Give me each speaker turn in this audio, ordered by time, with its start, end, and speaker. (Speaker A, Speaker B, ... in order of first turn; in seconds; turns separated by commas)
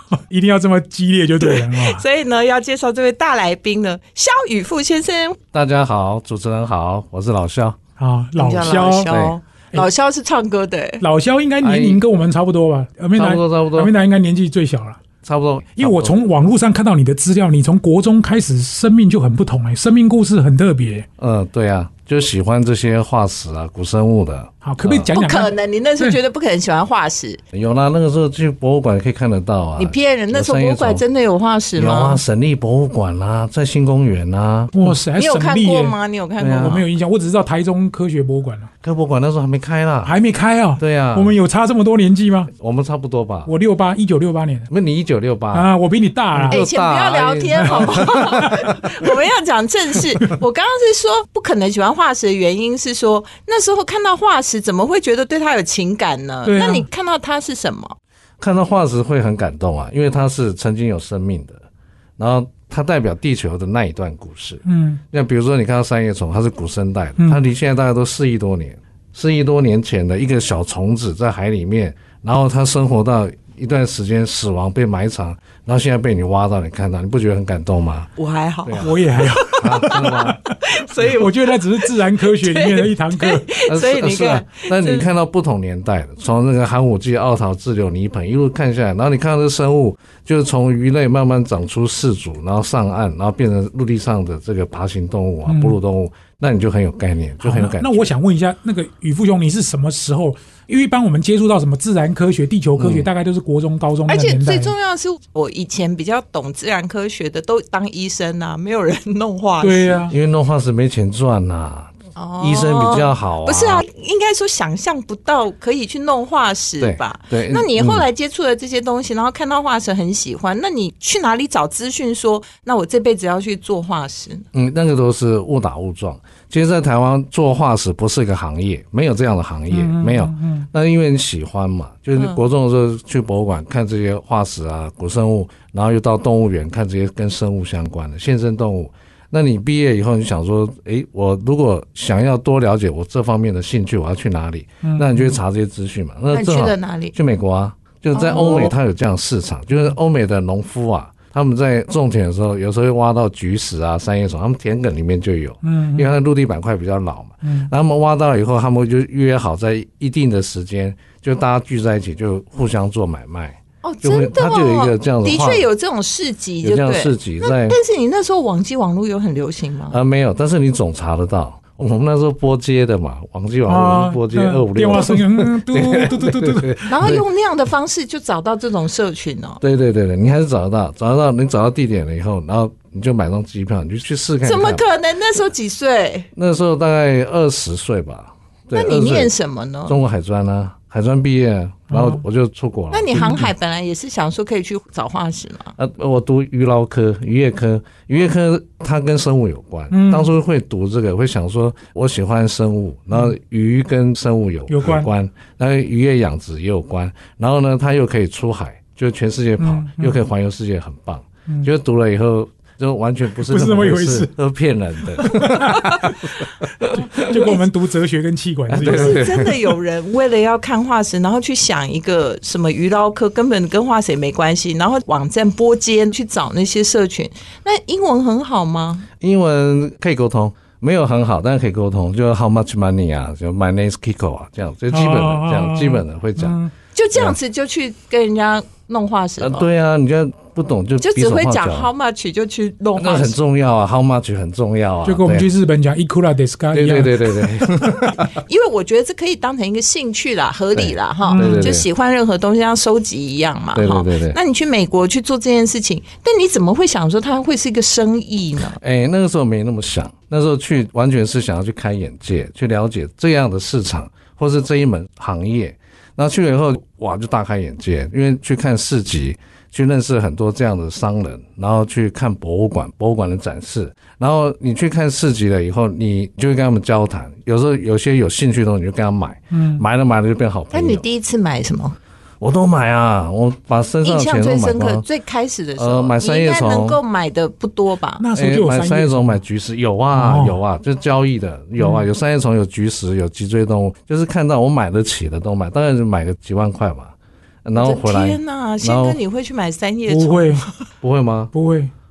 Speaker A: 0.1-2.0, Speaker B: 1.4-5.4, Speaker C: 5.5-7.8, Speaker A: 8.0-9.1, Speaker B: 8.4-11.0, Speaker C: 9.1-9.4, Speaker A: 11.0-15.0, Speaker C: 11.6-12.0, Speaker C: 13.2-13.9, Speaker C: 15.2-16.2, Speaker A: 15.8-21.1, Speaker C: 21.2-25.1, Speaker A: 24.6-26.2, Speaker B: 25.1-27.4, Speaker C: 27.5-31.0, Speaker B: 29.8-32.2, Speaker C: 31.8-35.0, Speaker A: 34.7-36.0, Speaker B: 35.2-36.9, Speaker C: 36.4-36.8, Speaker A: 36.6-38.7, Speaker C: 38.8-40.1, Speaker A: 40.0-42.5, Speaker C: 40.8-41.4, Speaker C: 42.6-43.5, Speaker A: 43.5-44.7, Speaker C: 44.7-45.7, Speaker A: 45.5-46.7, Speaker C: 46.3-49.1, Speaker B: 46.5-58.0, Speaker A: 47.6-48.6, Speaker A: 56.5-56.9, Speaker C: 58.4-61.6, Speaker C: 62.2-78.1, Speaker A: 64.7-65.0, Speaker B: 78.2-85.1, Speaker C: 78.7-80.4, Speaker A: 78.8-83.6, Speaker C: 83.7-98.1, Speaker A: 95.5-95.8, Speaker A: 97.4-104.7, Speaker C: 102.8-103.1, Speaker B: 104.1-110.1, Speaker A: 109.6-110.1, Speaker C: 110.1-113.8, Speaker B: 112.2-124.5, Speaker C: 116.8-118.1, Speaker C: 124.5-165.7, Speaker A: 129.7-130.7, Speaker A: 144.8-145.4, Speaker B: 146.3-147.2, Speaker B: 148.1-148.8, Speaker A: 155.6-156.1, Speaker A: 157.4-157.7, Speaker B: 163.8-170.0, Speaker C: 166.6-167.8, Speaker C: 169.9-177.2, Speaker A: 173.7-176.9, Speaker B: 176.9-179.6, Speaker C: 179.6-184.8, Speaker B: 184.4-186.3, Speaker C: 186.3-189.3, Speaker B: 188.7-190.0, Speaker C: 189.9-193.5, Speaker A: 191.9-192.2, Speaker B: 192.9-195.8, Speaker A: 193.2-193.5, Speaker C: 195.8-217.4, Speaker A: 199.9-200.3, Speaker A: 204.7-205.1, Speaker A: 209.6-210.2, Speaker A: 213.4-214.3, Speaker A: 215.2-219.2, Speaker B: 217.2-217.6, Speaker C: 218.7-219.6, Speaker B: 218.8-229.1, Speaker C: 229.2-236.6, Speaker A: 234.9-236.7, Speaker B: 236.9-239.7, Speaker C: 239.4-241.9, Speaker B: 241.0-243.4, Speaker C: 243.0-245.5, Speaker A: 245.1-247.3, Speaker C: 246.7-248.4, Speaker B: 248.3-258.8, Speaker C: 250.8-251.9, Speaker A: 251.2-251.7, Speaker C: 253.7-254.4, Speaker C: 258.8-281.1, Speaker A: 279.5-279.8, Speaker B: 280.7-282.0, Speaker C: 282.4-285.1, Speaker B: 284.0-288.2, Speaker C: 285.8-287.0, Speaker A: 288.2-289.4, Speaker C: 288.4-297.1, Speaker A: 290.1-290.6, Speaker A: 291.8-292.1, Speaker C: 297.6-299.2, Speaker B: 297.8-300.7, Speaker A: 300.1-300.6, Speaker C: 301.0-301.5, Speaker A: 301.5-301.9